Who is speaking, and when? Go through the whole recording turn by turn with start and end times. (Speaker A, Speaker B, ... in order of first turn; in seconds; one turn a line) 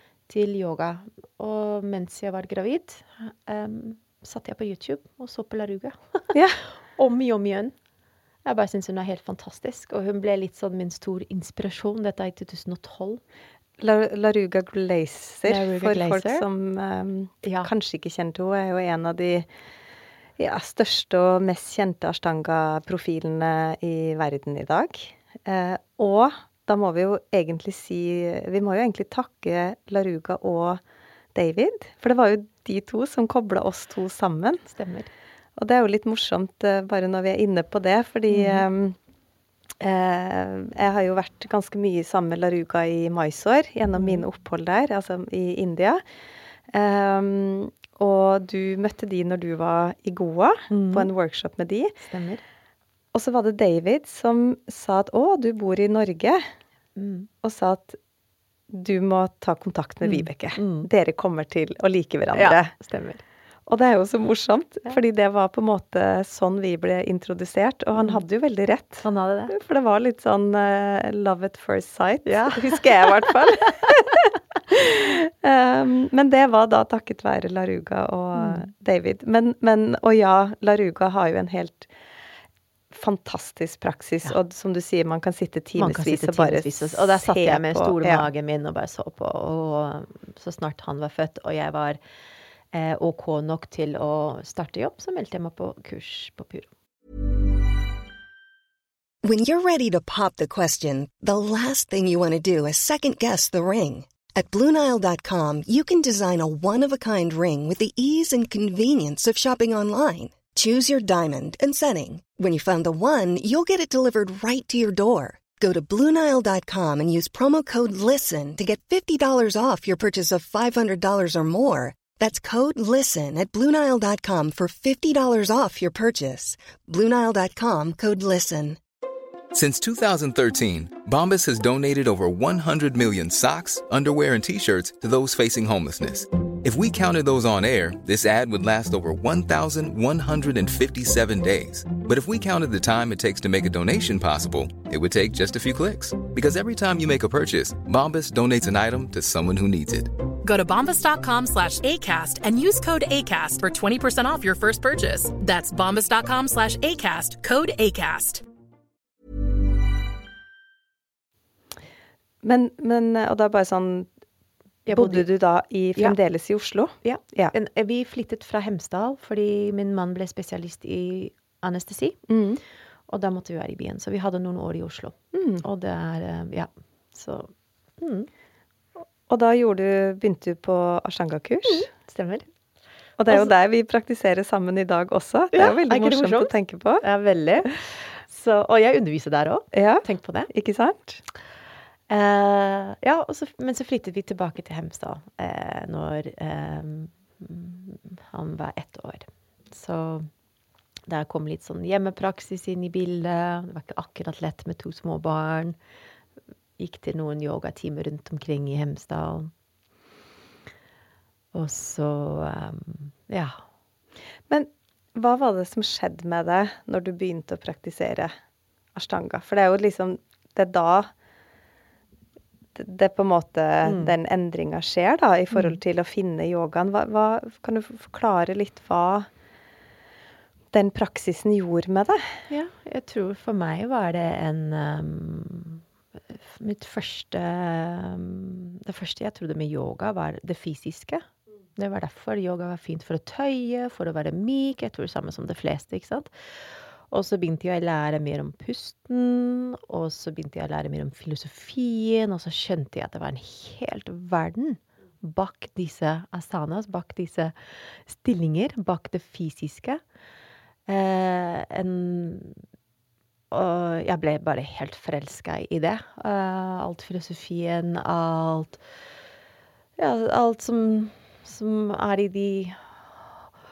Speaker A: 0.3-7.8
Speaker B: 6.3-6.6
Speaker A: 8.4-13.2
Speaker B: 13.8-19.5
Speaker A: 15.4-16.5
Speaker A: 17.4-17.7
Speaker B: 20.4-30.8
Speaker B: 31.3-34.6
Speaker A: 34.7-35.1
Speaker B: 35.6-39.0
Speaker A: 38.3-38.6
Speaker B: 39.8-46.0
Speaker A: 44.0-44.2
Speaker B: 46.7-52.0
Speaker A: 50.7-51.1
Speaker A: 52.0-52.4
Speaker B: 53.1-56.4
Speaker A: 57.0-57.3
Speaker B: 57.4-58.0
Speaker B: 58.7-62.7
Speaker A: 60.0-60.9
Speaker A: 62.3-63.2
Speaker B: 63.7-81.9
Speaker A: 69.0-69.5
Speaker A: 72.3-73.5
Speaker A: 78.4-78.6
Speaker B: 82.9-88.3
Speaker A: 85.8-92.0
Speaker A: 92.7-96.7
Speaker C: 99.2-128.8
Speaker D: 129.5-150.1
Speaker E: 150.4-158.4
Speaker B: 162.4-164.1
Speaker A: 164.9-165.3
Speaker B: 164.9-167.5
Speaker A: 167.0-172.3
Speaker B: 172.3-172.6
Speaker A: 173.1-178.3
Speaker B: 175.3-175.6
Speaker B: 179.3-181.9
Speaker A: 181.7-182.5
Speaker B: 183.2-187.0
Speaker A: 185.5-190.5
Speaker B: 189.7-191.2
Speaker A: 192.1-200.3
Speaker A: 201.1-205.8
Speaker A: 206.8-209.5
Speaker A: 211.5-213.6
Speaker B: 214.5-218.3
Speaker B: 218.9-221.1
Speaker B: 222.8-229.3
Speaker A: 223.8-224.2
Speaker A: 225.5-225.8
Speaker B: 230.7-232.4
Speaker A: 232.5-260.0
Speaker A: 260.9-262.6
Speaker A: 263.5-268.8
Speaker A: 270.0-273.5